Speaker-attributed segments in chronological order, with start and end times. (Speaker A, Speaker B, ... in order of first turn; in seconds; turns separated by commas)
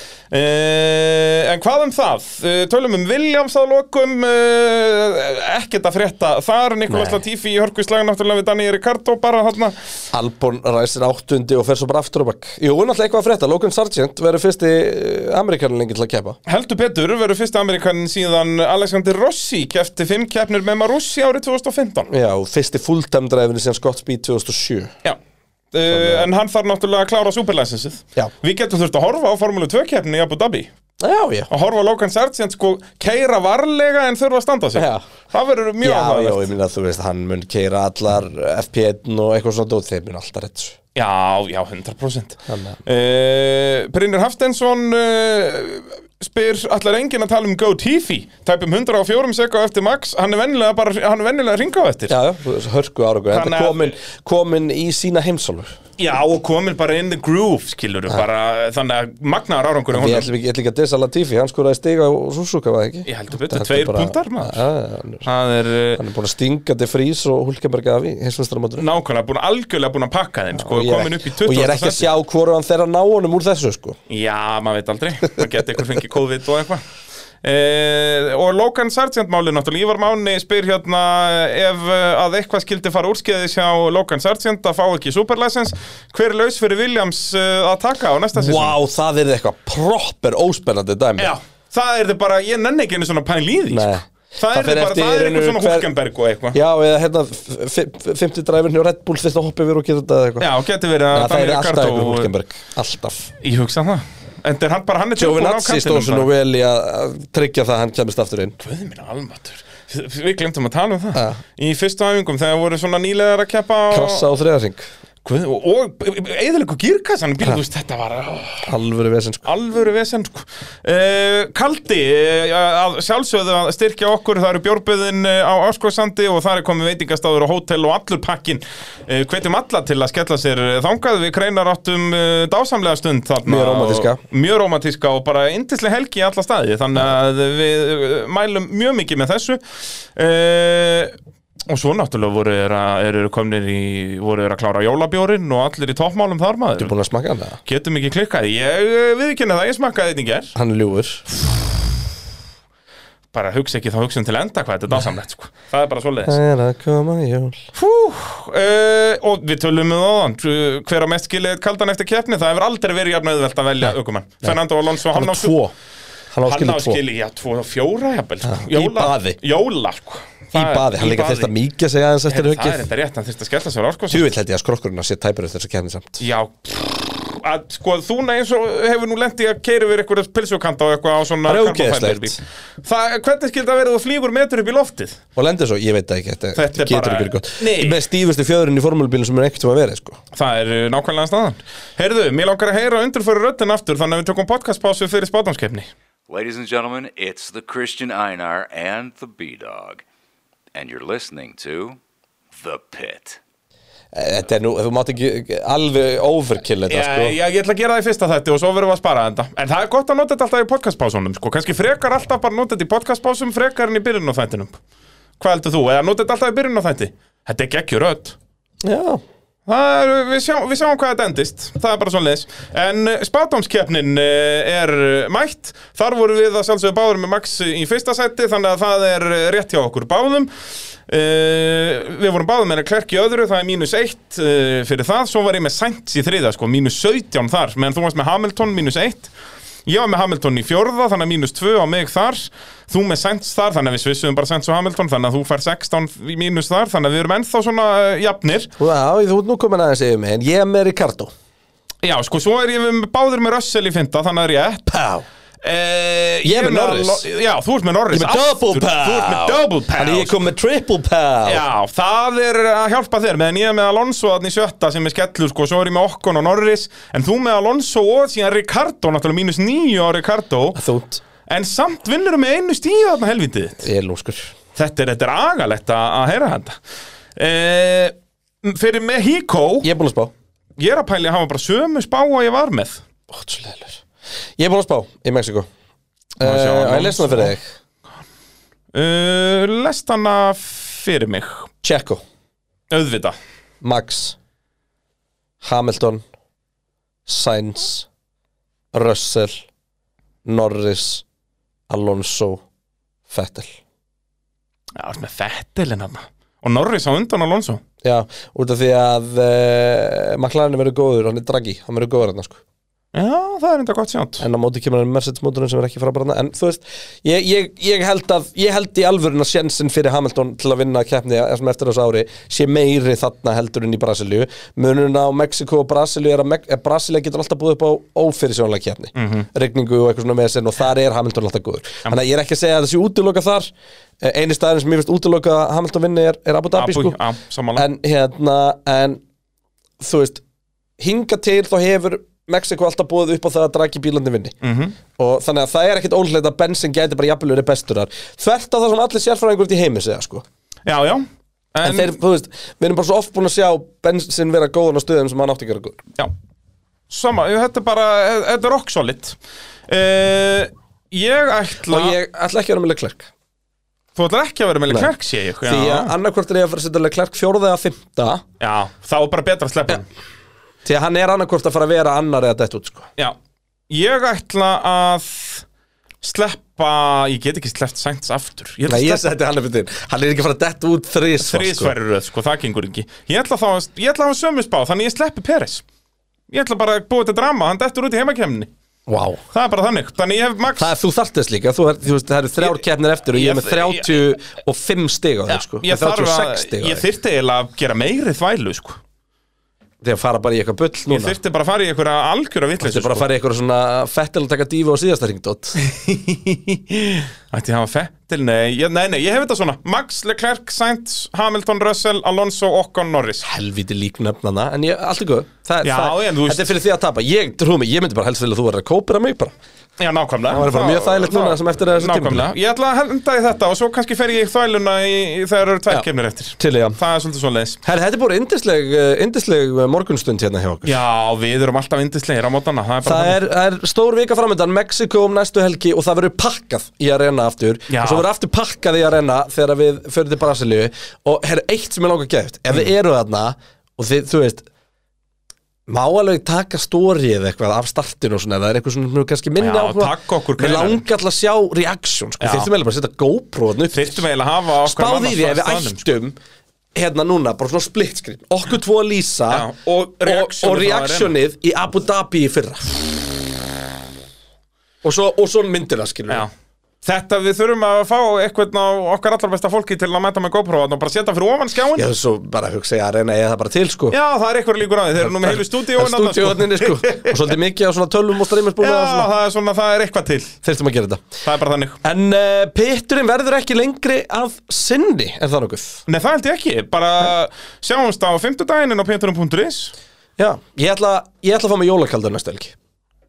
Speaker A: 0.3-9.8, Speaker B: 6.9-7.2, Speaker B: 10.1-16.4, Speaker A: 16.5-22.1, Speaker B: 22.1-24.9, Speaker A: 25.7-30.7, Speaker B: 25.9-26.3, Speaker B: 31.0-31.5, Speaker A: 31.5-36.5, Speaker B: 34.8-35.1, Speaker B: 35.8-40.8, Speaker A: 41.0-52.1, Speaker B: 42.5-42.8, Speaker B: 52.1-55.8, Speaker A: 53.3-54.0, Speaker A: 56.0-60.3, Speaker B: 59.9-65.3, Speaker A: 63.1-64.6, Speaker A: 65.2-66.0, Speaker B: 66.0-68.9, Speaker A: 68.8-72.1, Speaker B: 70.5-74.0, Speaker A: 74.1-76.8, Speaker A: 77.4-88.8, Speaker B: 88.4-91.3, Speaker A: 91.2-96.6, Speaker B: 93.7-95.9, Speaker B: 96.5-100.5, Speaker A: 100.4-102.3, Speaker B: 101.1-103.3, Speaker A: 103.4-106.3, Speaker B: 105.2-108.6, Speaker A: 108.6-114.3, Speaker B: 111.1-111.4, Speaker B: 113.9-114.8, Speaker A: 115.2-118.7, Speaker B: 118.7-119.5, Speaker A: 119.5-139.6, Speaker B: 133.4-134.2, Speaker A: 140.2-141.2, Speaker A: 141.7-146.9, Speaker B: 146.8-147.6, Speaker A: 147.6-150.6, Speaker B: 150.6-151.2, Speaker A: 153.3-156.4, Speaker B: 156.3-157.7, Speaker A: 157.8-165.6, Speaker B: 163.8-164.6, Speaker B: 165.1-165.7, Speaker B: 166.3-167.0, Speaker A: 166.4-171.5, Speaker B: 168.4-169.4, Speaker B: 170.5-172.9, Speaker A: 172.3-174.3, Speaker B: 174.1-176.2, Speaker A: 176.2-185.2, Speaker B: 181.4-182.4, Speaker B: 185.4-190.2, Speaker A: 186.6-188.0, Speaker A: 190.3-195.9, Speaker C: 196.3-200.0, Speaker C: 200.7-202.0, Speaker C: 202.6-203.4, Speaker B: 204.1-207.3, Speaker A: 206.9-214.8, Speaker A: 215.4-218.4, Speaker B: 218.8-219.2, Speaker A: 219.7-230.5, Speaker A: 231.1-239.3, Speaker A: 239.9-248.7, Speaker B: 248.8-251.3, Speaker A: 252.0-254.9, Speaker B: 254.9-255.2, Speaker A: 255.6-260.4, Speaker B: 256.4-257.3, Speaker B: 258.1-261.6, Speaker A: 261.4-270.8, Speaker B: 270.8-271.2, Speaker A: 271.5-273.9, Speaker B: 273.8-274.5, Speaker A: 274.8-276.8, Speaker A: 277.4-279.9, Speaker B: 279.8-280.3, Speaker A: 280.8-283.0, Speaker B: 283.3-284.0, Speaker B: 284.6-285.7, Speaker B: 286.4-287.6, Speaker A: 286.4-287.6, Speaker A: 288.9-291.7, Speaker B: 291.8-292.2, Speaker A: 292.9-293.4, Speaker B: 293.8-294.4, Speaker B: 295.6-296.2, Speaker B: 297.3-298.1, Speaker B: 298.9-299.6, Speaker B: 300.4-301.2, Speaker B: 301.9-302.6, Speaker B: 303.3-303.8, Speaker A: 304.9-307.8, Speaker B: 308.0-312.6, Speaker A: 313.1-314.4, Speaker B: 314.4-337.2, Speaker A: 329.1-329.5, Speaker A: 336.8-337.9, Speaker B: 337.8-339.2, Speaker B: 340.0-340.4, Speaker B: 341.0-344.6, Speaker A: 344.6-345.0, Speaker B: 345.2-350.4, Speaker A: 350.9-352.2, Speaker B: 351.8-356.0, Speaker A: 357.1-359.4, Speaker A: 359.9-362.2, Speaker B: 361.8-363.3, Speaker A: 364.2-366.1, Speaker B: 364.9-368.4, Speaker A: 368.6-370.1, Speaker B: 370.9-373.1, Speaker A: 373.9-375.6, Speaker A: 376.2-379.3, Speaker B: 378.9-381.9, Speaker A: 381.4-385.8, Speaker A: 386.5-388.7, Speaker B: 389.1-389.4, Speaker A: 389.5-390.9, Speaker B: 390.8-397.1, Speaker A: 393.3-394.4, Speaker A: 395.5-399.0, Speaker B: 400.0-401.4, Speaker A: 401.1-403.2, Speaker B: 402.8-405.8, Speaker A: 405.8-413.5, Speaker B: 413.4-419.5, Speaker A: 415.8-416.7, Speaker A: 420.0-427.8, Speaker B: 420.5-422.5, Speaker B: 426.6-427.0, Speaker B: 427.8-431.0, Speaker A: 430.8-433.4, Speaker B: 433.0-444.7, Speaker A: 437.9-438.3, Speaker B: 445.9-454.2, Speaker A: 449.6-451.0, Speaker A: 452.4-452.7, Speaker A: 453.9-456.1, Speaker B: 454.8-456.4, Speaker B: 456.9-459.7, Speaker A: 459.5-461.4, Speaker B: 460.2-463.2, Speaker B: 465.0-466.4, Speaker A: 467.0-472.1, Speaker B: 471.9-474.2, Speaker A: 474.1-477.5, Speaker B: 475.2-479.3, Speaker A: 478.8-480.6, Speaker B: 480.6-481.2, Speaker A: 481.4-482.0, Speaker B: 482.0-486.0, Speaker A: 486.1-489.9, Speaker B: 490.4-492.8